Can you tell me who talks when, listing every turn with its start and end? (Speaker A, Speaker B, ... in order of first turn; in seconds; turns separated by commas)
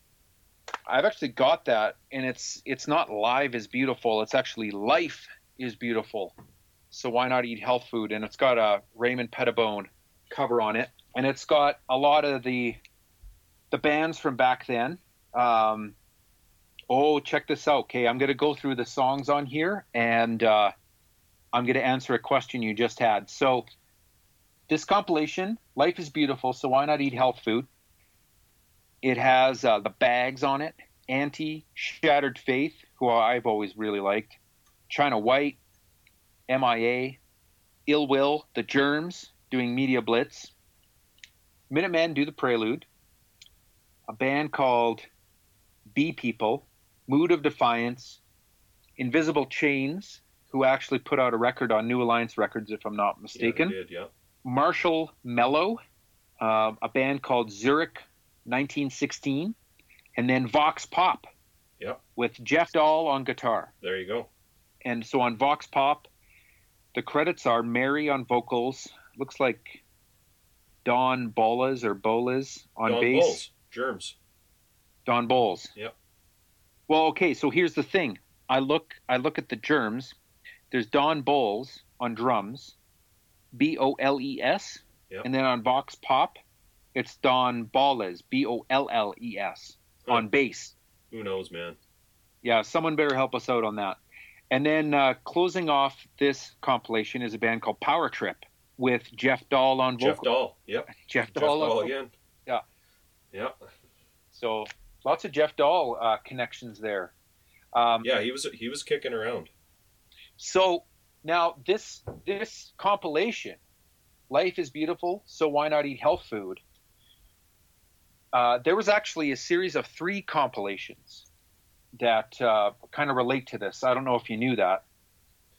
Speaker A: 0.9-6.3, Speaker A: 6.9-12.8, Speaker A: 13.7-15.9, Speaker A: 16.9-20.7, Speaker A: 21.5-23.6, Speaker A: 24.7-27.7, Speaker A: 29.0-34.4, Speaker A: 34.9-35.6, Speaker A: 36.5-37.2, Speaker A: 37.9-40.5, Speaker A: 41.7-42.9, Speaker A: 44.1-45.1, Speaker A: 45.9-48.2, Speaker A: 49.0-53.8, Speaker B: 53.3-54.1, Speaker A: 54.4-55.8, Speaker A: 56.4-59.5, Speaker A: 60.2-61.3, Speaker A: 62.1-63.7, Speaker B: 63.8-64.3, Speaker A: 64.8-66.1, Speaker A: 66.9-69.8, Speaker A: 70.8-73.4, Speaker B: 72.8-74.2, Speaker A: 75.1-75.7, Speaker A: 76.9-80.2, Speaker A: 80.7-82.7, Speaker A: 83.5-86.4, Speaker A: 86.9-90.7, Speaker B: 91.1-91.8, Speaker A: 92.4-94.0, Speaker A: 94.5-100.3, Speaker B: 100.0-102.1, Speaker A: 101.0-101.9, Speaker B: 103.3-103.7, Speaker A: 104.3-107.1, Speaker A: 107.7-108.1, Speaker B: 108.0-109.5, Speaker A: 110.4-113.6, Speaker A: 114.3-116.6, Speaker A: 118.3-121.3, Speaker A: 122.0-124.8